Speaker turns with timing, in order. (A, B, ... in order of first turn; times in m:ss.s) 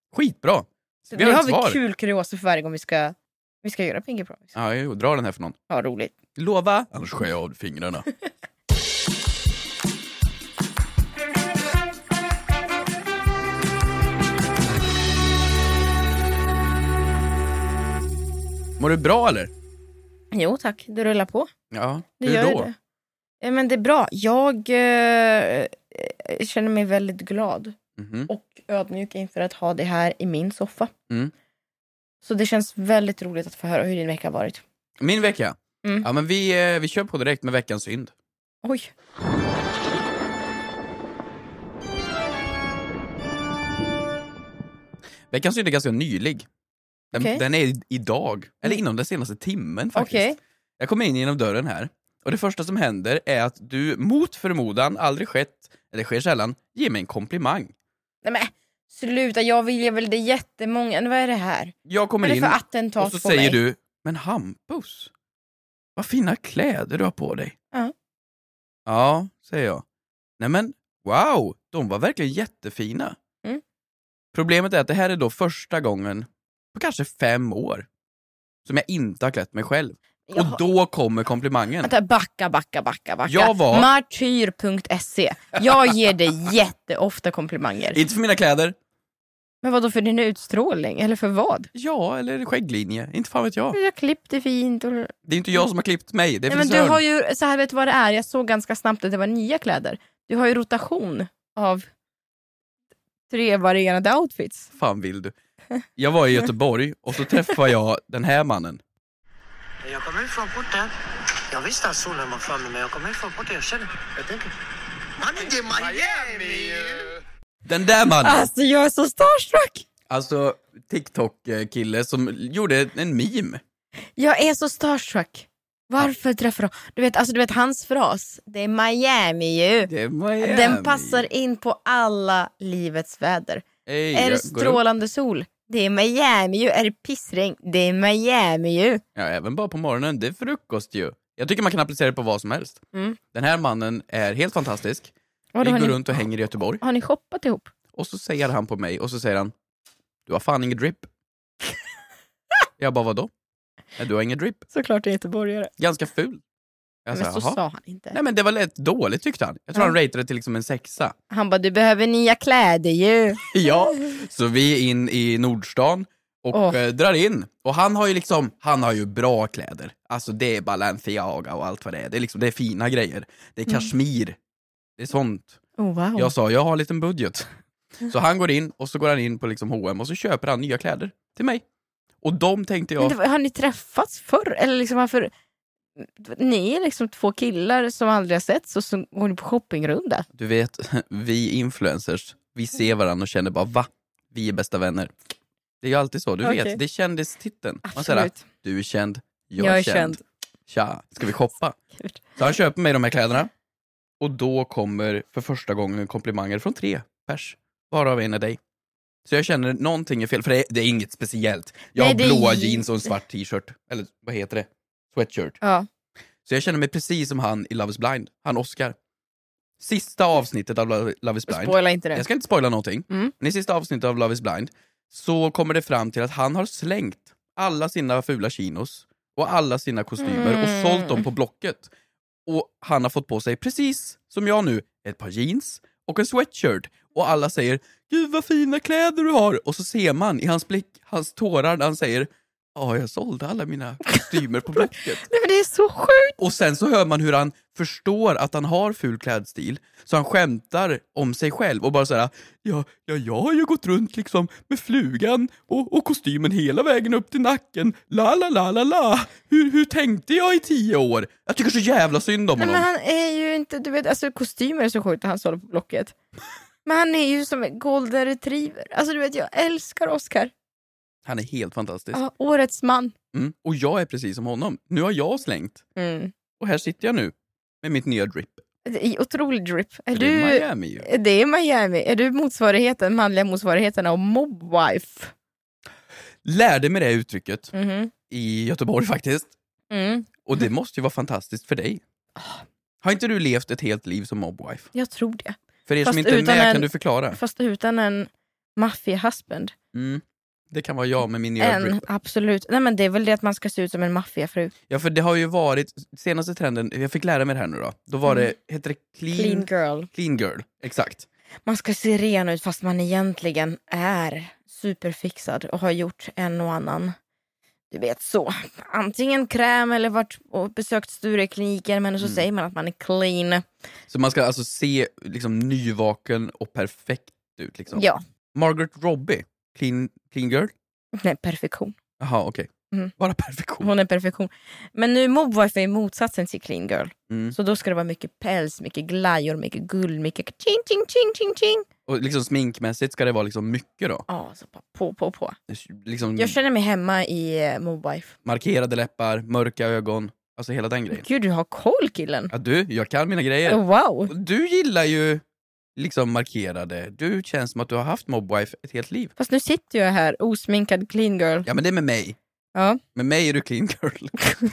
0:00.1-0:01.8 A
0:01.1-0:04.5 B
0:04.6-0:05.6 A
0:05.7-0:06.1 B
0:06.4-0:08.0 A
0:18.8-0:19.5 A
0:20.3-0:21.5 B
0:21.7-0:22.7 A
0:22.2-0:22.8 B
0:23.4-0:27.8 B
0:28.0-0:28.3 A
0:28.3-0:30.9 B
0:32.2-0:34.6 B
0:35.0-0:38.1 A
0:38.6-0:38.9 B
0:45.3-0:46.5 A
0:47.1-0:57.7 A
0:47.1-0:47.4 B
0:50.0-0:50.4 B
0:58.2-1:03.6 B
1:01.8-1:05.1 A
1:06.0-1:07.6 A
1:08.9-1:09.8 A
1:10.4-1:13.2 A
1:14.3-1:17.9 A
1:18.6-1:21.9 A
1:20.3-1:20.6 B
1:21.8-1:28.0 B
1:23.3-1:23.9 A
1:27.9-1:28.8 A
1:29.6-1:31.7 B
1:31.7-1:33.8 A
1:33.7-1:35.1 B
1:35.3-1:37.0 A
1:36.5-1:41.9 B
1:43.3-1:44.7 B
1:44.8-1:45.3 A
1:46.0-1:48.8 A
1:49.8-1:50.9 C
1:51.5-1:54.5 C
1:55.2-1:57.1 C
1:57.7-1:58.5 A
1:58.2-1:59.8 B
2:00.1-2:03.6 A
2:04.2-2:19.0 B
2:09.9-2:11.3 A
2:13.9-2:14.8 A
2:19.2-2:22.8 A
2:23.3-2:26.8 A
2:25.5-2:26.2 B
2:26.8-2:27.7 B
2:27.9-2:29.5 A
2:30.3-2:31.1 A
2:32.8-2:33.3 A
2:34.0-2:34.6 A
2:34.7-2:35.7 B
2:35.8-2:36.4 A
2:37.0-2:37.6 A
2:37.1-2:38.2 B
2:38.1-2:41.2 A
2:41.3-2:43.5 B
2:43.5-2:54.4 A
2:46.5-2:46.8 B
2:55.0-2:55.6 A
2:55.8-2:56.3 B
2:56.2-2:57.5 A
2:58.0-3:01.6 A
3:02.2-3:03.2 A
3:03.0-3:05.3 B
3:06.0-3:10.3 B
3:10.4-3:15.1 A
3:15.8-3:21.8 A
3:16.4-3:16.8 B
3:17.9-3:18.4 B
3:19.6-3:20.2 B
3:22.0-3:22.2 B
3:22.4-3:23.5 A
3:24.2-3:28.6 A
3:29.2-3:35.6 A
3:32.0-3:32.9 B
3:35.6-3:35.9 B
3:36.4-3:39.0 A
3:39.8-3:51.9 A
3:41.5-3:42.2 B
3:50.2-3:51.3 B
3:52.5-4:05.2 A
4:04.1-4:06.4 B
4:06.4-4:22.9 A
4:22.6-4:26.1 B
4:26.8-4:30.5 B
4:31.2-4:32.2 A
4:32.1-4:33.1 B
4:33.3-4:35.8 A
4:36.0-4:36.3 B
4:36.6-4:38.6 A
4:38.9-4:45.3 B
4:40.1-4:41.1 A
4:46.4-4:47.7 A
4:47.7-4:48.1 B
4:48.3-4:49.5 A
4:49.9-4:50.3 B
4:50.4-4:52.0 A
4:52.4-4:52.6 B
4:53.0-4:54.9 A
4:54.9-4:59.7 B
4:55.9-4:57.4 A
4:59.9-5:02.0 A
5:01.6-5:04.7 B
5:04.9-5:11.3 A
5:08.2-5:08.5 B
5:09.3-5:10.1 B
5:11.7-5:17.2 B
5:17.9-5:23.6 B
5:24.1-5:28.0 A
5:27.9-5:28.2 B
5:28.6-5:30.7 A
5:31.2-5:32.0 B
5:32.2-5:33.9 A
5:33.8-5:41.9 B
5:37.3-5:37.6 A
5:42.1-5:44.3 A
5:44.3-5:45.6 B
5:45.7-5:46.6 A
5:46.4-5:48.4 B
5:48.4-5:51.2 A
5:51.1-5:52.5 B
5:52.5-5:55.4 A
5:53.7-5:54.3 B
5:56.0-5:59.3 A
5:59.4-6:01.7 B
6:01.6-6:02.4 A
6:02.8-6:03.0 B
6:03.2-6:04.4 A